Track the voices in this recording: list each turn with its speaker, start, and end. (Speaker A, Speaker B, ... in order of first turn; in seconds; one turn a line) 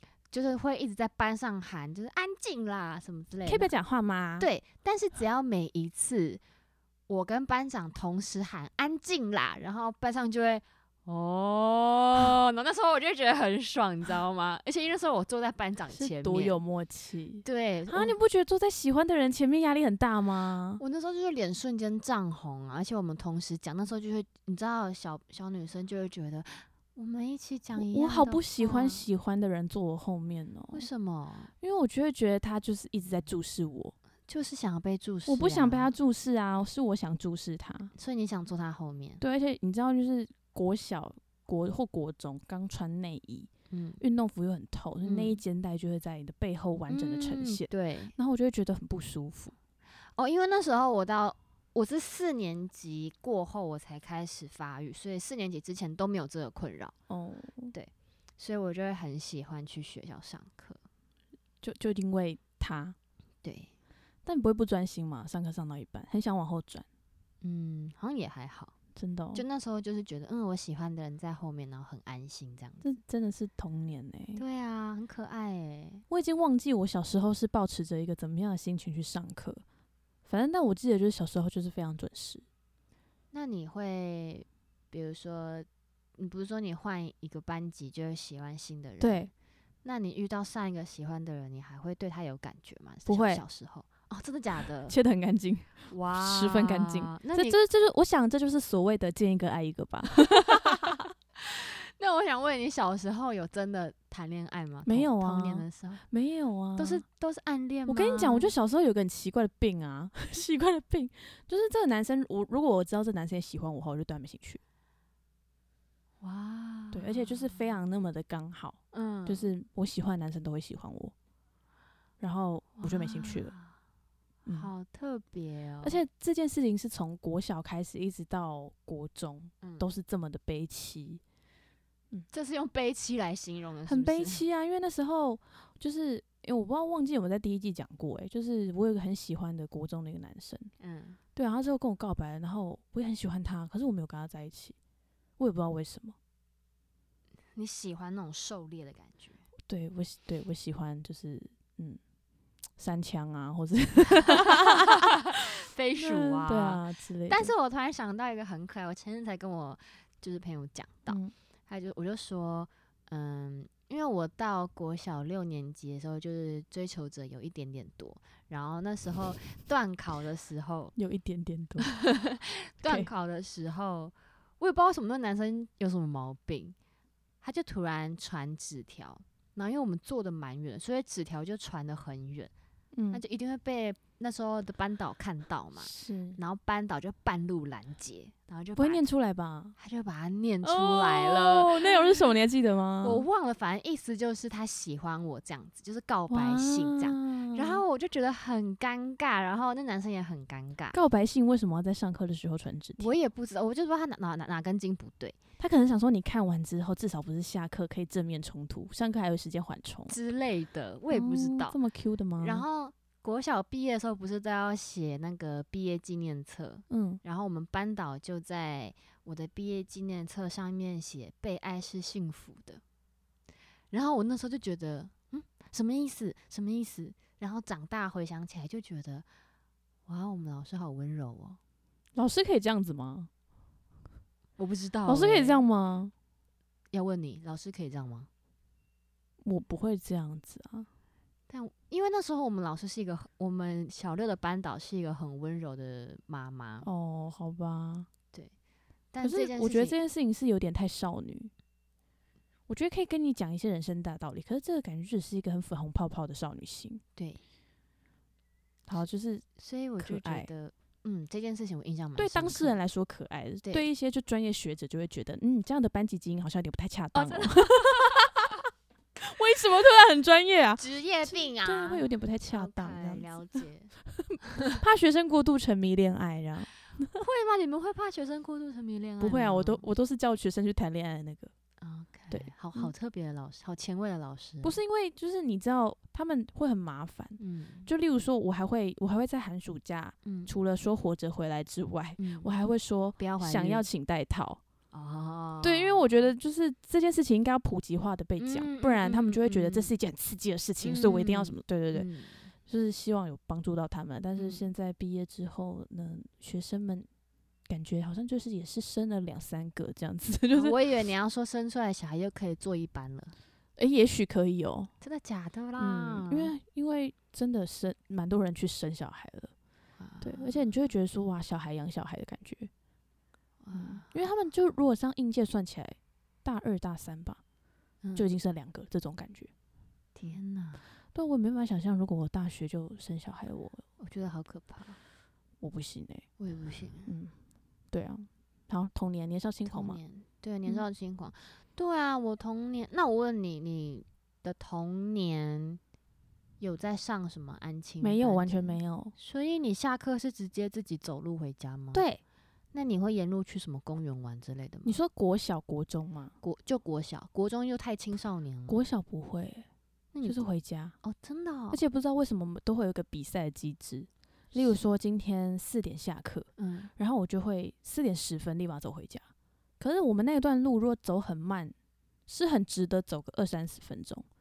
Speaker A: 0.3-3.7
Speaker B: 3.5-4.5
Speaker A: 4.4-6.4
Speaker A: 7.1-16.6
Speaker B: 15.9-20.8
Speaker A: 17.4-18.2
Speaker A: 20.8-29.1
Speaker B: 27.8-30.9
Speaker A: 30.7-31.5
Speaker B: 31.6-33.9
Speaker A: 34.3-35.9
Speaker B: 35.2-37.9
Speaker A: 38.0-39.2
Speaker B: 39.2-43.5
Speaker A: 43.7-44.0
Speaker B: 44.0-49.5
Speaker A: 45.0-45.4
Speaker A: 46.9-48.1
Speaker A: 50.1-56.9
Speaker B: 57.1-57.7
Speaker A: 57.7-60.8
Speaker B: 61.6-63.0
Speaker A: 63.4-63.7
Speaker B: 64.2-66.8
Speaker A: 67.4-68.7
Speaker B: 69.0-69.4
Speaker A: 69.3-72.8
Speaker B: 72.8-74.4
Speaker A: 74.3-76.0
Speaker B: 76.1-79.6
Speaker B: 80.2-82.4
Speaker A: 83.3-89.3
Speaker B: 89.0-89.3
Speaker A: 89.8-95.0
Speaker B: 93.0-93.4
Speaker B: 94.9-101.0
Speaker A: 95.9-97.6
Speaker A: 100.3-106.0
Speaker B: 104.8-107.0
Speaker A: 106.8-108.5
Speaker B: 107.9-114.6
Speaker A: 116.2-117.6
Speaker B: 116.9-121.1
Speaker A: 118.9-119.5
Speaker B: 122.2-123.5
Speaker A: 122.8-123.7
Speaker A: 124.5-126.0
Speaker B: 125.8-131.2
Speaker A: 132.3-134.4
Speaker B: 133.8-140.7
Speaker A: 140.8-141.2
Speaker B: 141.3-144.7
Speaker B: 145.4-146.2
Speaker A: 147.5-149.4
Speaker B: 149.7-152.0
Speaker B: 152.8-155.4
Speaker A: 154.1-170.9
Speaker B: 155.9-157.5
Speaker B: 161.1-161.3
Speaker B: 170.9-171.9
Speaker A: 171.8-176.8
Speaker B: 172.8-173.1
Speaker A: 177.4-182.5
Speaker B: 182.9-183.2
Speaker A: 183.1-189.0
Speaker B: 185.8-186.4
Speaker B: 188.8-189.7
Speaker A: 189.8-192.3
Speaker B: 190.6-193.2
Speaker A: 193.0-201.0
Speaker B: 196.3-197.8
Speaker B: 200.9-203.1
Speaker A: 203.0-205.4
Speaker B: 205.6-210.2
Speaker A: 210.1-211.8
Speaker B: 211.1-212.6
Speaker A: 212.4-222.8
Speaker B: 216.9-217.2
Speaker A: 223.9-229.2
Speaker A: 230.1-231.6
Speaker B: 232.1-233.3
Speaker A: 234.6-235.6
Speaker B: 235.1-236.1
Speaker A: 236.9-238.3
Speaker B: 239.4-240.9
Speaker A: 241.5-246.9
Speaker B: 246.8-248.1
Speaker A: 249.1-250.0
Speaker B: 249.2-251.5
Speaker B: 252.7-257.0
Speaker A: 257.1-257.4
Speaker B: 258.9-259.4
Speaker A: 259.6-262.8
Speaker B: 260.0-260.5
Speaker B: 262.2-268.4
Speaker A: 267.1-268.3
Speaker B: 269.1-270.8
Speaker A: 270.8-274.8
Speaker B: 271.6-273.3
Speaker B: 274.2-276.7
Speaker A: 277.1-279.8
Speaker B: 279.2-281.5
Speaker A: 281.8-284.8
Speaker B: 282.3-282.9
Speaker B: 284.6-294.6
Speaker A: 287.4-287.9
Speaker A: 290.2-290.5
Speaker A: 292.2-292.5
Speaker A: 293.2-293.8
Speaker A: 294.9-296.3
Speaker B: 295.6-302.1
Speaker A: 298.4-299.9
Speaker A: 300.8-302.5
Speaker B: 302.7-307.1
Speaker A: 304.4-304.6
Speaker B: 307.7-310.8
Speaker A: 310.5-313.4
Speaker B: 313.8-314.9
Speaker A: 315.0-316.5
Speaker B: 315.8-319.5
Speaker A: 320.0-320.6
Speaker B: 320.2-322.7
Speaker A: 323.6-324.1
Speaker B: 323.7-327.4
Speaker B: 328.1-329.5
Speaker A: 330.1-330.8
Speaker B: 331.1-333.8
Speaker A: 334.0-335.0
Speaker B: 335.6-336.3
Speaker A: 336.4-337.1
Speaker B: 337.1-337.3
Speaker B: 337.9-340.0
Speaker A: 339.7-345.8
Speaker A: 346.6-352.0
Speaker B: 348.0-349.1
Speaker B: 351.9-352.2
Speaker A: 352.7-355.0
Speaker B: 354.8-356.3
Speaker A: 356.4-358.8
Speaker B: 358.7-359.7
Speaker A: 360.1-360.4
Speaker B: 360.2-360.9
Speaker A: 361.0-361.8
Speaker B: 361.7-369.2
Speaker A: 366.6-366.9
Speaker B: 369.8-371.7
Speaker B: 372.3-374.2